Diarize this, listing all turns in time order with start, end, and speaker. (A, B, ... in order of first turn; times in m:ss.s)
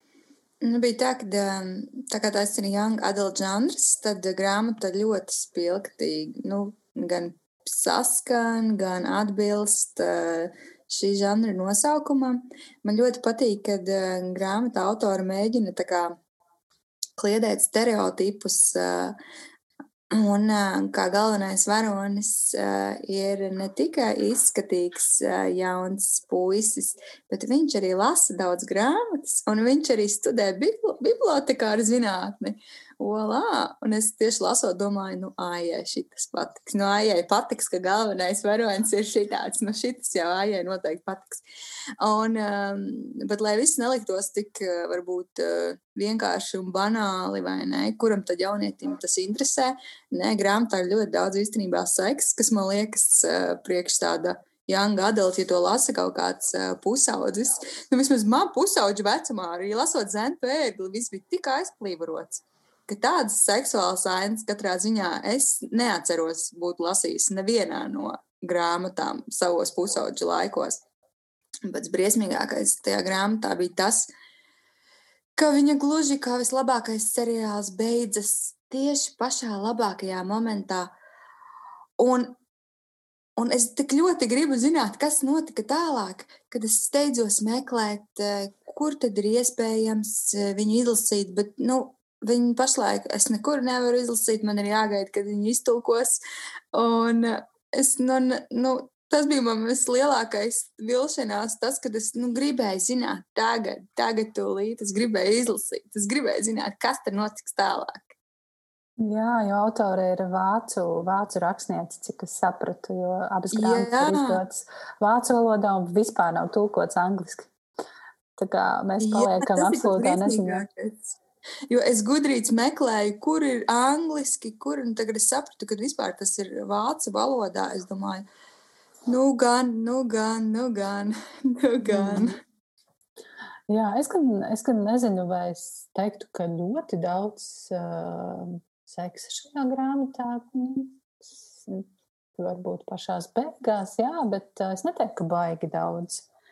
0:00.6-0:16.2 A
0:17.2-0:19.2 A
0:20.1-0:41.4 A
0:42.0-1:10.8 A
1:11.6-1:14.1 A
1:15.4-1:20.9 A
1:22.0-1:22.4 A
1:23.4-1:36.2 A
1:36.7-1:48.1 A
1:49.0-1:57.5 B
1:53.5-1:54.4 A
1:58.4-2:00.6 B
1:59.0-2:08.2 A
2:09.1-2:12.4 A
2:11.9-2:12.3 B
2:13.7-2:21.8 B
2:22.4-2:26.2 B